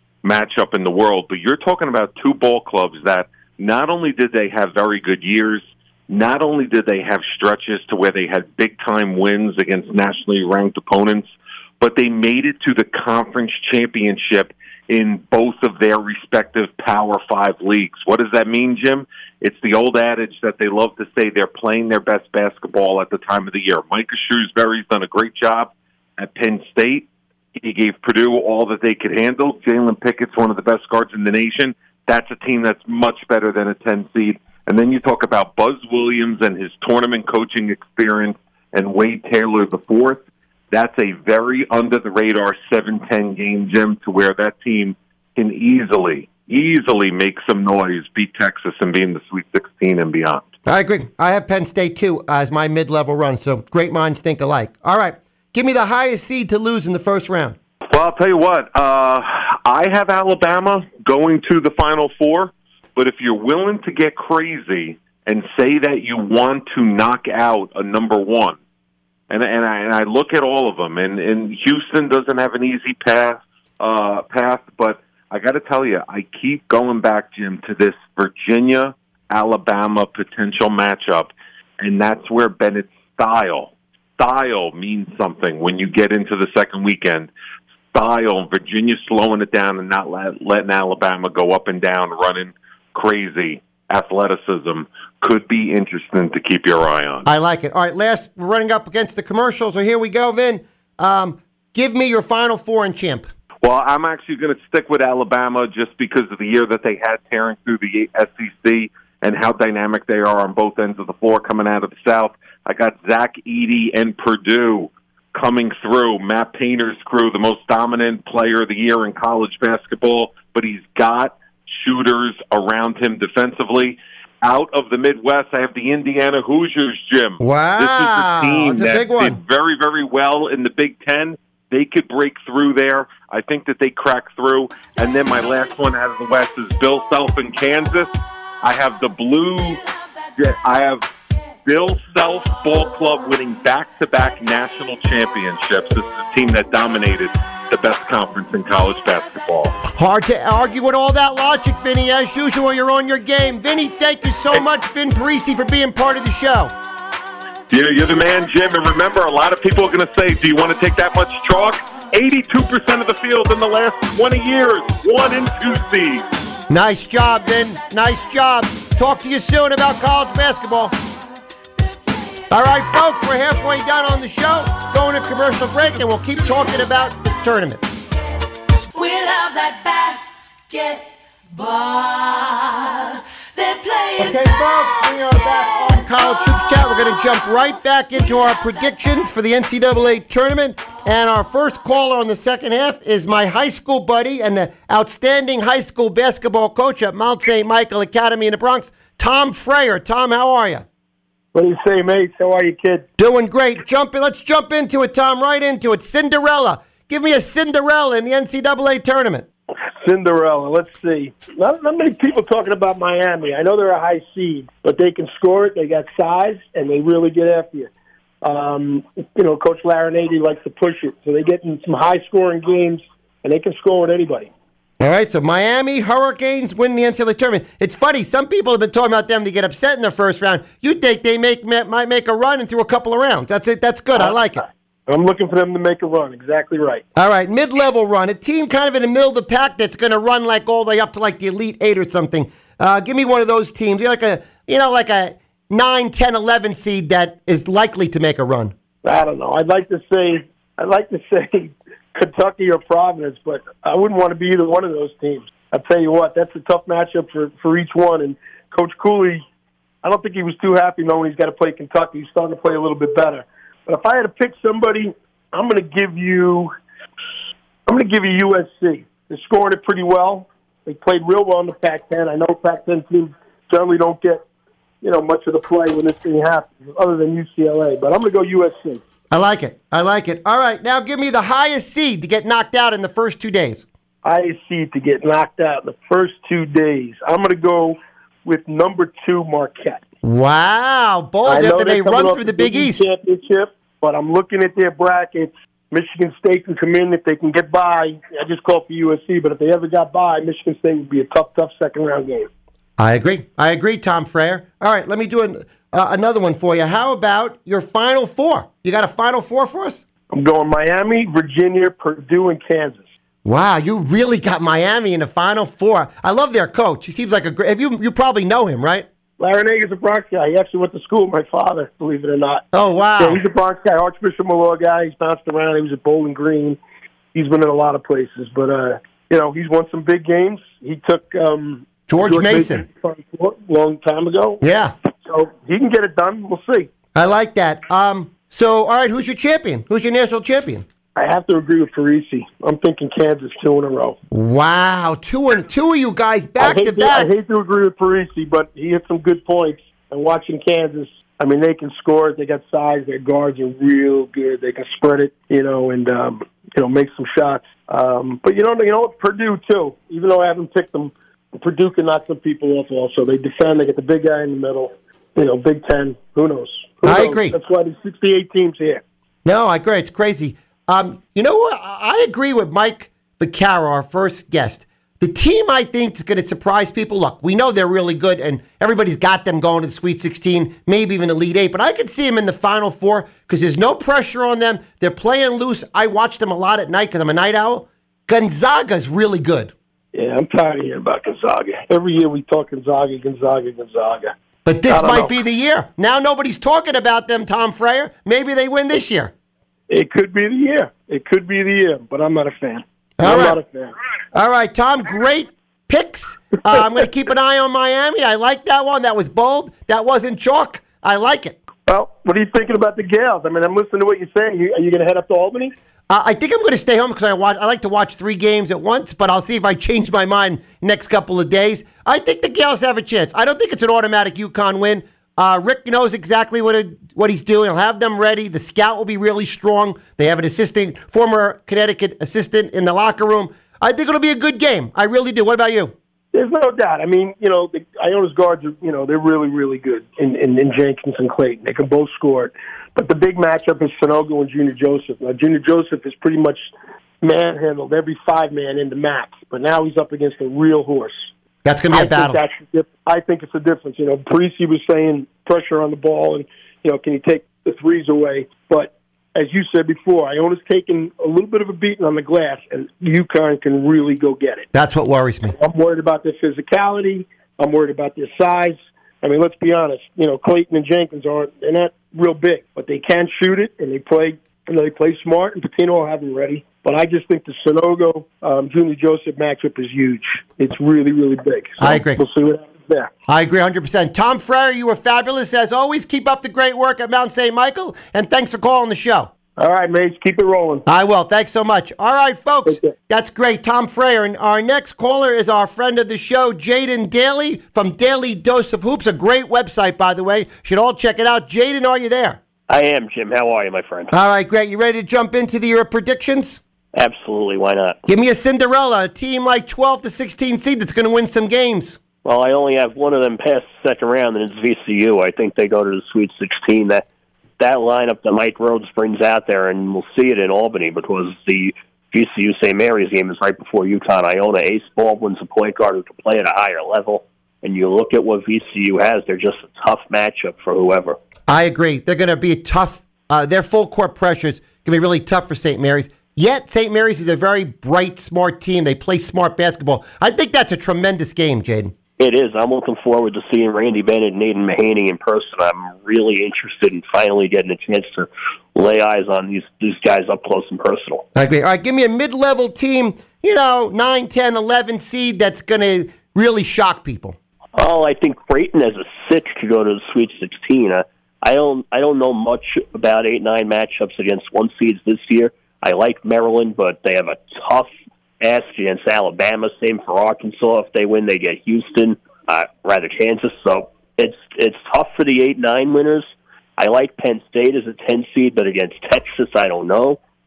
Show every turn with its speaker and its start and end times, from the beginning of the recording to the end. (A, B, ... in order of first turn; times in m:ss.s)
0:00.2-0:11.3 A
0:11.8-0:50.5 A
0:50.6-0:57.6 B
0:57.9-1:08.6 A
1:09.3-1:27.3 A
1:27.9-1:37.2 A
1:37.2-1:43.3 B
1:43.6-2:18.1 A
2:07.4-2:09.4 B
2:18.6-2:19.8 A
2:20.4-2:21.0 A
2:21.6-2:29.8 A
2:29.9-2:36.7 B
2:37.7-2:46.2 A
2:46.7-2:50.9 B
2:52.1-2:53.3 C
2:52.5-2:57.8 B
2:58.9-3:06.8 C
3:04.2-3:20.8 B
3:08.3-3:08.7 C
3:21.5-3:23.0 D
3:23.2-3:29.4 B
3:30.0-3:37.9 D
3:38.4-3:44.5 D
3:45.0-3:54.6 B
3:54.2-3:57.0 D
3:57.2-4:08.7 B
4:09.0-4:19.4 D
4:20.0-4:26.7 D
4:27.8-4:34.4 D
4:35.0-4:39.0 D
4:39.3-4:43.8 B
4:44.2-4:50.0 D
4:50.2-4:53.0 B
4:51.4-5:02.5 D
5:03.0-5:10.0 B
5:10.3-5:13.0 D
5:13.4-5:19.1 B
5:19.4-5:22.6 D
5:22.7-5:23.4 B
5:23.2-5:26.8 D
5:27.3-5:34.6 D
5:32.1-5:32.8 B
5:34.6-5:34.9 B
5:35.2-5:36.9 D
5:37.1-5:40.8 B
5:41.2-5:44.2 D
5:44.3-5:47.3 B
5:46.6-6:09.0 D
6:07.0-6:07.6 B
6:09.4-6:29.7 B
6:30.1-6:34.3 D
6:34.6-6:39.3 B
6:34.9-6:35.3 D
6:39.9-6:43.9 D
6:43.2-6:43.6 B
6:44.3-6:51.6 B
6:51.9-6:55.7 D
6:56.1-7:15.9 B
7:16.3-7:26.7 D
7:27.2-7:31.3 D
7:31.6-7:32.4 B
7:31.9-7:44.7 D
7:44.7-7:45.5 B
7:45.6-8:03.1 D
8:01.8-8:02.2 B
8:03.3-8:09.3 B
8:09.6-8:10.8 D
8:10.8-8:22.4 B
8:12.7-8:12.9 D
8:22.7-8:24.1 E
8:24.1-8:26.6 B
8:26.9-8:28.0 E
8:28.1-8:32.0 B
8:32.2-8:37.0 E
8:37.6-8:51.2 E
8:51.5-9:01.9 B
9:02.2-9:11.2 E
9:11.3-9:17.4 B
9:17.7-9:27.9 E
9:28.4-9:36.3 E
9:36.8-9:40.2 E